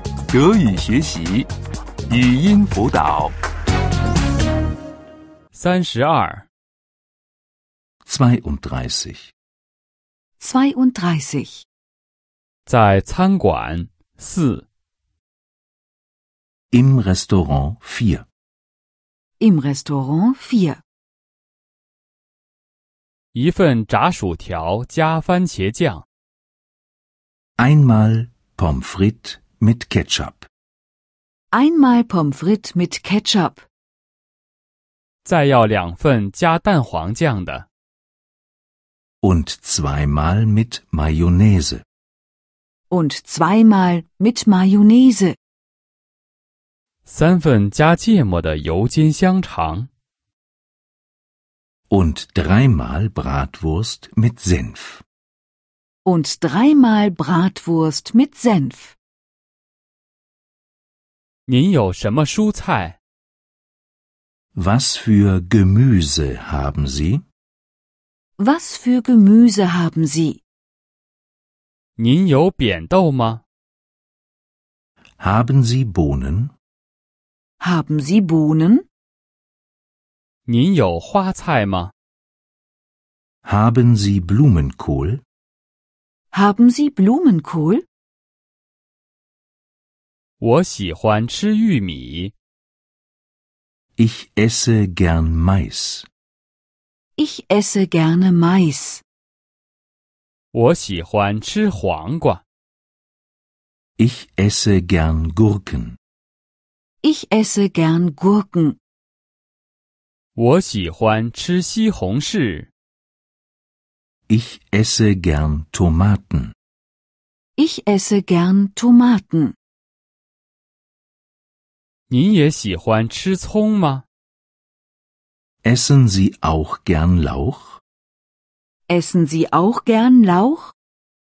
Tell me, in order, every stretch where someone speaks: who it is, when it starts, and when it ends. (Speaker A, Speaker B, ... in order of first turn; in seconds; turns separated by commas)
Speaker A: 0.3-1.5, Speaker A: 2.1-3.3, Speaker B: 5.5-6.5, Speaker C: 8.1-9.3, Speaker D: 10.4-11.6, Speaker B: 12.7-14.7, Speaker C: 16.7-18.3, Speaker D: 19.4-20.8, Speaker B: 23.3-26.1, Speaker C: 27.6-30.5, Speaker D: 31.5-33.6, Speaker B: 35.2-37.7, Speaker C: 39.2-41.8, Speaker D: 42.9-45.4, Speaker B: 47.0-49.9, Speaker C: 51.9-55.0, Speaker D: 56.0-59.0, Speaker B: 61.5-63.0, Speaker C: 64.5-67.2, Speaker D: 68.4-70.4, Speaker B: 72.0-73.4, Speaker C: 75.2-76.5, Speaker D: 77.6-78.8, Speaker B: 80.5-81.9, Speaker C: 83.5-85.2, Speaker D: 86.3-87.8, Speaker B: 90.4-92.3, Speaker C: 94.0-96.1, Speaker D: 97.2-99.0, Speaker B: 100.5-102.4, Speaker C: 104.0-106.0, Speaker D: 107.0-108.8, Speaker B: 110.4-112.7, Speaker C: 114.3-116.5, Speaker D: 117.6-119.5, Speaker B: 122.1-124.0, Speaker C: 125.6-127.8, Speaker D: 128.9-130.7